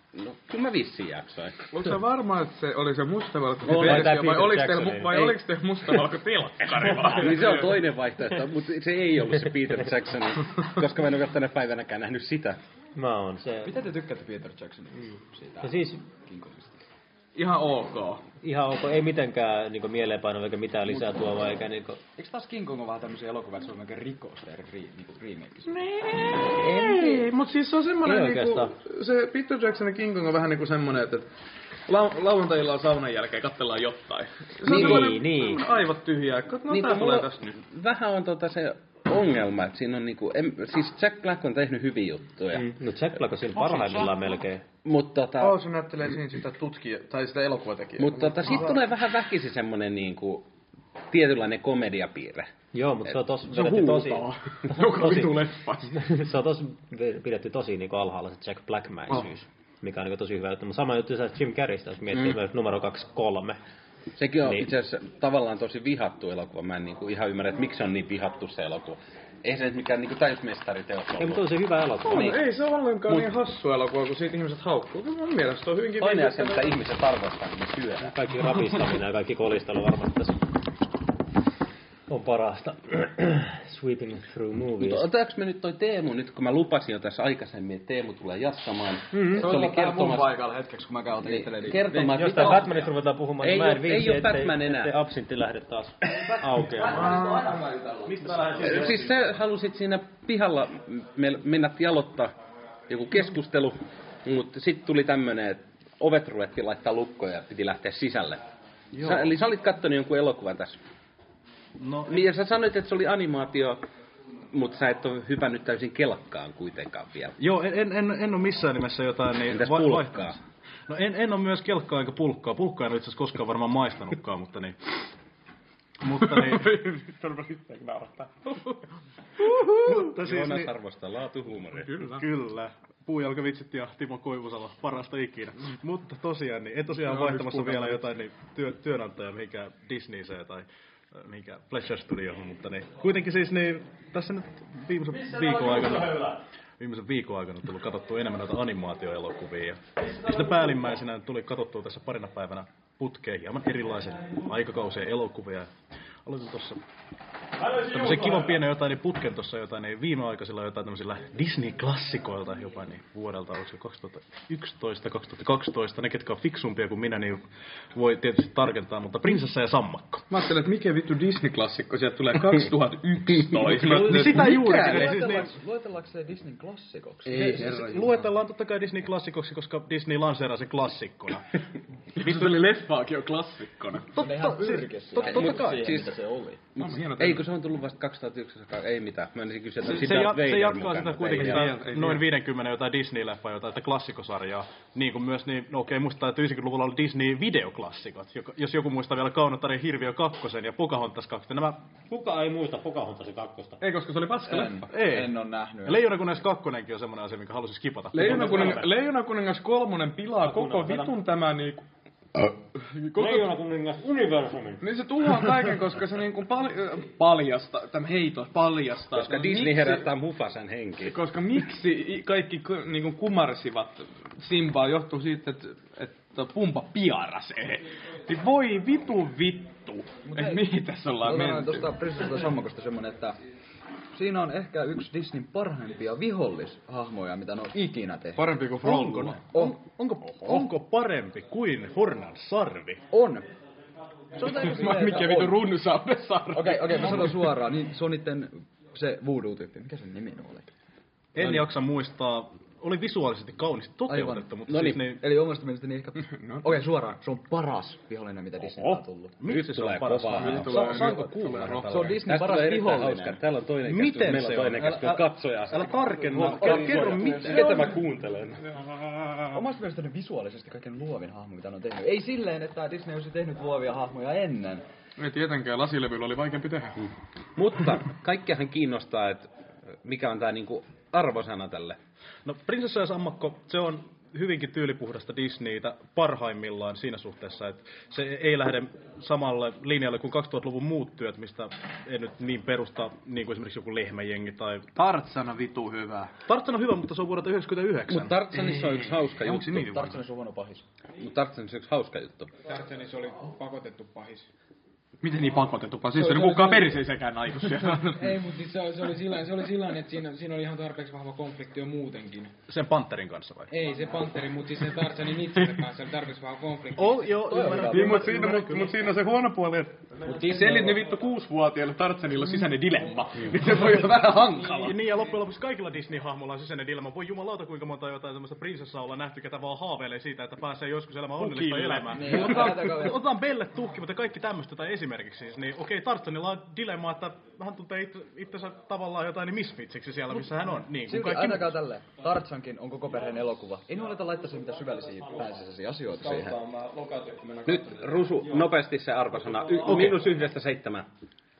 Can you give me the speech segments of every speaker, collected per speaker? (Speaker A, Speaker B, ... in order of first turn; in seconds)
Speaker A: 0.1-1.7, 7.1-12.6, 34.7-35.1, 36.7-42.8, 44.9-45.6, 48.0-50.5, 51.1-52.5, 64.2-71.5, 72.1-72.4, 76.0-78.2, 84.8-90.3, 91.2-94.9, 98.6-102.3, 102.9-108.4, 109.0-110.8, 112.1-113.8, 114.5-117.3, 119.5-120.4, 130.1-132.0, 186.8-191.7, 219.2-221.2, 254.7-255.0, 259.5-269.5, 277.6-279.5, 280.0-282.0, 298.1-299.9, 301.2-302.5, 347.7-351.1
Speaker B: 1.7-7.9, 17.4-18.2, 25.7-31.3, 31.9-37.5, 45.4-48.9, 53.5-56.0, 72.0-76.8, 96.9-97.5, 126.1-128.8, 129.4-130.1, 131.9-132.2, 137.1-138.0, 170.3-175.1, 177.3-178.1, 182.2-186.2, 186.8-187.4, 189.9-190.4, 191.4-192.3, 203.8-204.9, 208.1-211.9, 212.8-213.5, 214.8-220.1, 221.0-231.9, 238.4-239.4, 244.4-247.5, 256.3-256.7, 260.4-261.9, 275.2-277.0, 294.9-296.3, 299.6-300.0, 305.2-308.4, 317.9-325.0, 331.5-332.7, 346.2-348.0, 349.8-350.0
Speaker C: 3.6-5.4, 12.9-13.8, 15.6-16.0, 18.4-22.0, 26.4-27.2, 28.0-28.7, 34.6-35.7, 42.5-44.6, 52.7-63.6, 71.2-72.4, 78.0-80.4, 82.1-85.0, 89.1-89.5, 91.9-97.3, 145.1-146.4, 202.1-203.8, 208.2-208.8, 210.4-211.1, 213.2-214.8
Speaker D: 13.6-16.8, 22.2-26.0, 89.3-92.0, 96.5-99.0, 173.8-178.2, 184.1-186.6, 204.4-206.0, 230.3-233.4, 234.1-238.6, 239.5-239.8, 243.1-243.5, 244.4-245.6, 246.5-250.7, 254.1-259.4, 260.1-263.4, 266.3-267.4, 269.5-274.9, 299.4-300.9, 317.4-318.3, 331.8-333.3, 341.0-346.6
Speaker E: 98.1-99.3, 108.9-109.3, 111.8-112.2, 117.4-120.4, 120.9-124.8, 126.0-126.7, 129.7-130.7, 131.9-155.7, 156.2-156.8, 157.6-167.4, 167.9-170.2, 173.6-175.5, 177.3-181.5, 182.2-182.6, 184.2-186.0, 189.8-201.8, 204.9-205.3, 205.8-208.8, 238.8-243.0, 251.3-255.2, 258.6-262.2, 263.8-267.9, 282.4-294.9, 296.5-298.4, 312.7-313.7, 316.9-319.0, 324.2-341.8, 349.8-350.2
Speaker F: 302.6-304.5, 306.4-306.9, 308.1-312.5, 313.7-317.8, 320.3-320.9